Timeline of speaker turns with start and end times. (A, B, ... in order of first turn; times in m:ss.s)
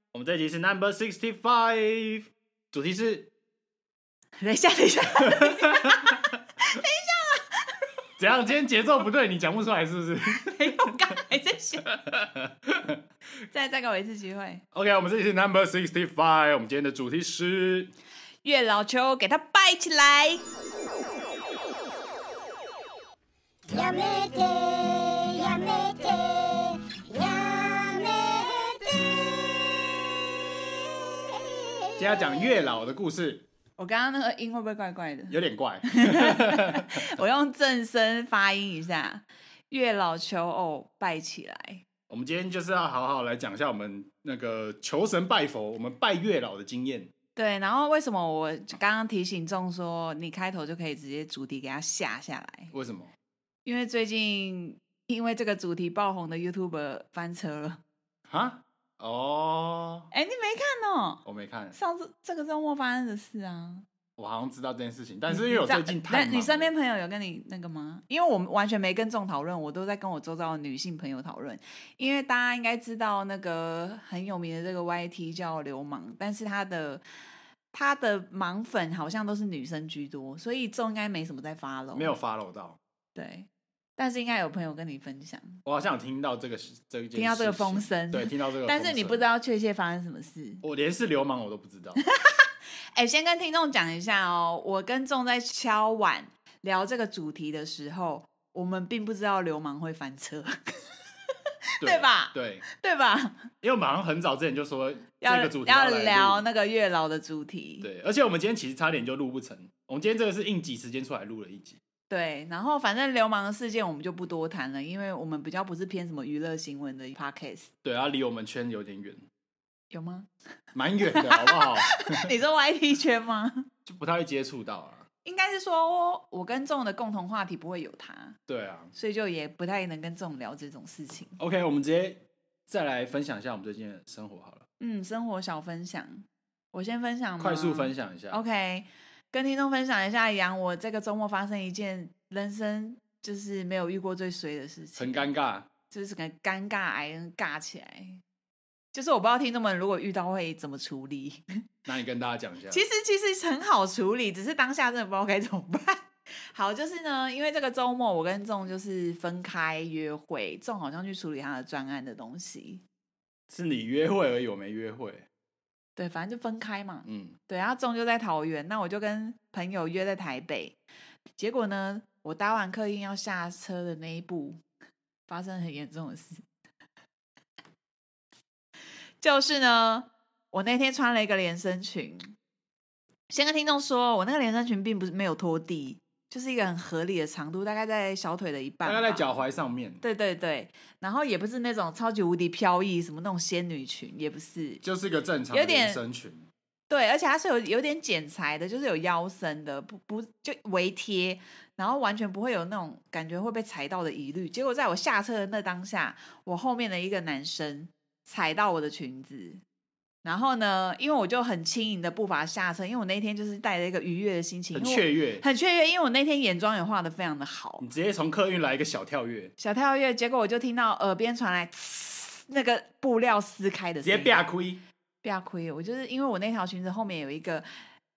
0:00.1-0:03.3 A
0:04.4-0:07.8 B
0:05.3-0:06.2 A
0:08.2-0:11.0 A
0:10.3-0:11.8 B
0:11.9-0:13.0 A
0:13.5-0:14.6 B
0:14.7-0:17.9 A
0:18.4-0:20.4 B
0:23.7-0:29.7 C
0:32.0-0:33.4 A
0:33.8-0:35.4 B
0:35.3-0:37.1 A
0:35.9-0:41.8 B
0:42.1-0:47.1 A
0:47.4-0:52.7 B
0:52.7-0:53.1 A
0:53.6-0:57.8 B
0:58.3-1:00.1 A
1:00.1-1:01.2 B
1:01.2-1:01.8 A
1:01.7-1:03.8 B
1:04.2-1:06.7 A
1:05.3-1:17.0 B
1:17.7-1:22.1 B
1:21.9-1:22.8 A
1:23.1-1:25.6 B
1:25.6-1:29.3 A
1:27.1-1:30.6 B
1:30.6-1:32.0 A
1:32.0-1:40.6 B
1:41.2-1:43.5 B
1:41.8-1:42.6 A
1:43.6-1:46.4 A
1:45.2-1:47.9 B
1:47.8-1:51.8 A
1:52.1-1:57.7 B
1:57.8-1:59.2 A
1:59.9-2:00.3 B
2:00.7-2:02.3 A
2:01.0-2:03.6 B
2:03.8-2:05.1 A
2:05.2-2:08.4 B
2:08.5-2:08.9 A
2:08.9-2:11.4 B
2:11.4-2:14.6 A
2:14.8-2:25.3 B
2:17.4-2:18.4 A
2:25.0-2:25.7 A
2:25.9-2:28.2 B
2:28.9-2:31.4 B
2:31.8-2:32.8 A
2:32.7-2:42.8 B
2:43.5-2:45.2 A
2:46.0-2:50.8 B
2:47.0-2:47.4 A
2:51.4-2:54.6 B
2:55.3-2:56.5 B
2:59.2-3:02.3 B
3:03.3-3:09.4 B
3:08.8-3:10.0 A
3:10.0-3:14.8 B
3:14.8-3:16.5 A
3:15.5-3:16.0 B
3:16.9-3:29.6 B
3:30.2-3:37.8 B
3:34.7-3:35.4 A
3:37.8-3:39.5 A
3:39.6-3:44.4 B
3:44.0-3:44.8 A
3:45.2-3:47.7 B